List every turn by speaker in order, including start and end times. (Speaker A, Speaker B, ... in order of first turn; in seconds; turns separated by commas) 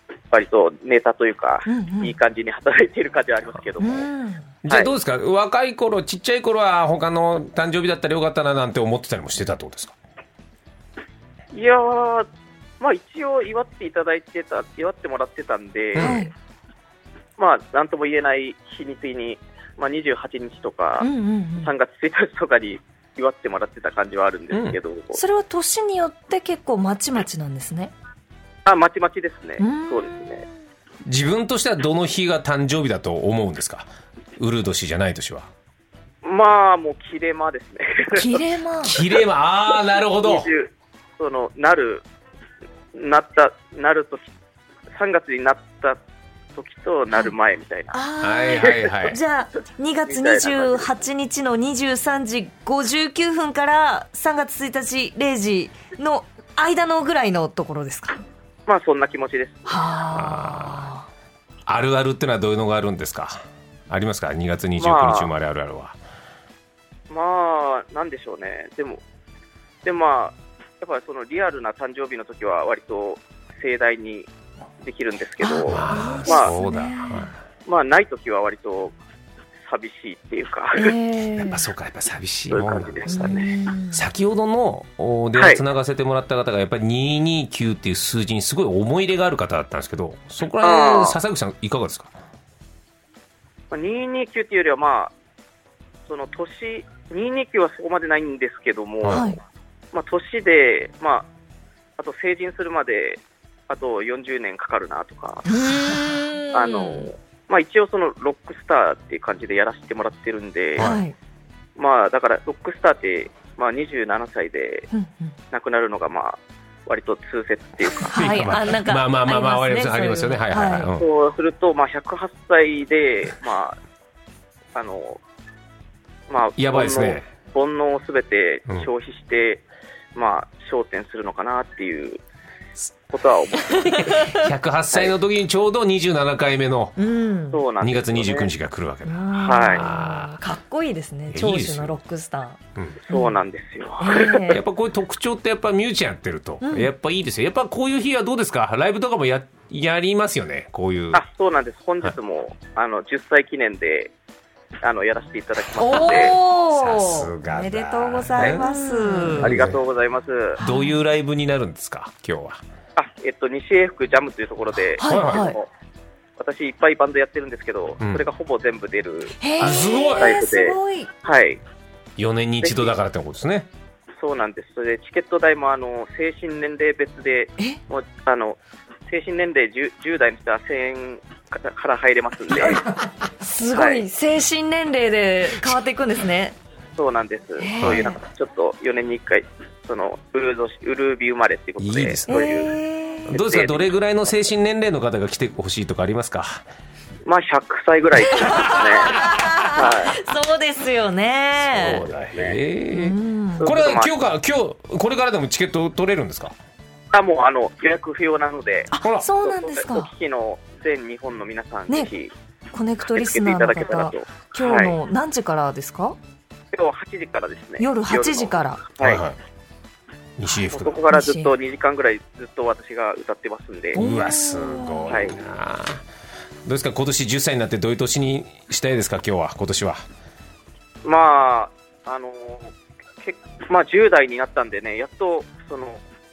Speaker A: 0.3-4.1, Speaker B: 1.7-2.1, Speaker B: 3.8-4.4, Speaker C: 4.6-9.9, Speaker A: 11.5-12.3, Speaker A: 12.8-16.3, Speaker C: 15.9-16.3, Speaker B: 16.0-16.3, Speaker A: 17.4-25.2, Speaker B: 21.0-21.7, Speaker C: 24.5-24.8, Speaker B: 25.1-27.9, Speaker A: 28.6-30.4, Speaker B: 29.6-30.5, Speaker C: 31.0-35.5, Speaker A: 36.2-38.4, Speaker B: 38.1-39.0, Speaker C: 38.8-40.5, Speaker A: 40.2-42.0, Speaker A: 42.9-44.3, Speaker A: 45.0-46.0, Speaker A: 46.5-48.0, Speaker B: 47.9-58.2, Speaker C: 48.2-49.2, Speaker A: 50.0-50.9, Speaker A: 58.7-59.8, Speaker B: 59.7-61.0, Speaker C: 60.1-60.9, Speaker C: 61.7-66.0, Speaker A: 64.8-65.3, Speaker A: 67.1-69.0, Speaker A: 69.8-74.3, Speaker A: 74.8-76.5, Speaker B: 75.4-77.3, Speaker C: 75.7-77.3, Speaker A: 77.7-78.9, Speaker A: 79.6-81.0, Speaker B: 80.7-81.6, Speaker C: 81.4-83.3, Speaker A: 82.5-83.6, Speaker B: 83.1-84.0, Speaker C: 83.9-92.1, Speaker A: 90.6-91.2, Speaker A: 93.7-95.1, Speaker A: 96.1-99.3, Speaker C: 99.0-99.3, Speaker B: 99.1-99.4, Speaker A: 99.9-101.3, Speaker A: 102.0-105.5, Speaker B: 105.5-107.1, Speaker A: 106.5-111.0, Speaker C: 110.8-111.0, Speaker B: 110.8-111.1, Speaker A: 111.8-114.9, Speaker B: 114.9-115.3, Speaker A: 115.5-118.6, Speaker B: 118.0-120.9, Speaker C: 118.1-121.1, Speaker A: 121.0-123.8, Speaker A: 124.7-125.2, Speaker A: 126.3-129.6, Speaker C: 126.6-127.2, Speaker A: 130.1-132.2, Speaker A: 133.1-135.1, Speaker B: 133.9-134.4, Speaker C: 134.2-137.0, Speaker B: 137.0-137.6, Speaker A: 137.5-138.5, Speaker C: 137.8-140.4, Speaker B: 139.0-142.6, Speaker A: 139.3-139.8, Speaker C: 141.3-142.0, Speaker A: 143.1-144.6, Speaker B: 143.1-143.3, Speaker B: 144.0-144.6, Speaker C: 144.4-151.2, Speaker B: 146.6-146.9, Speaker A: 151.1-154.1, Speaker A: 154.8-156.4, Speaker B: 155.7-159.5, Speaker C: 156.1-159.8, Speaker A: 158.3-160.6, Speaker C: 160.6-162.6, Speaker B: 160.6-161.0, Speaker A: 162.9-165.7, Speaker B: 165.0-165.6, Speaker C: 165.0-165.4, Speaker A: 166.4-171.6, Speaker B: 169.4-171.1, Speaker C: 169.6-170.4, Speaker C: 172.2-173.7, Speaker A: 172.6-172.9, Speaker A: 174.2-182.8, Speaker B: 183.4-186.5, Speaker A: 183.7-184.0, Speaker A: 187.0-192.7, Speaker B: 187.6-188.2, Speaker C: 187.8-188.1, Speaker C: 191.8-192.5, Speaker B: 192.3-193.3, Speaker A: 193.3-193.9, Speaker C: 193.3-196.6, Speaker A: 197.2-200.2, Speaker B: 198.3-202.1, Speaker C: 201.6-206.6, Speaker A: 201.8-202.6, Speaker B: 202.9-203.7, Speaker A: 203.6-204.1, Speaker A: 207.1-212.3, Speaker B: 208.9-210.1, Speaker C: 209.0-209.3, Speaker B: 212.7-216.2, Speaker A: 213.0-214.9, Speaker A: 216.7-219.2, Speaker B: 217.8-218.8, Speaker C: 219.0-219.4, Speaker C: 220.4-221.0, Speaker B: 220.5-221.5, Speaker A: 220.7-224.0, Speaker B: 223.9-225.1, Speaker C: 223.9-226.0, Speaker A: 225.1-225.4, Speaker C: 226.7-230.0, Speaker A: 231.0-236.0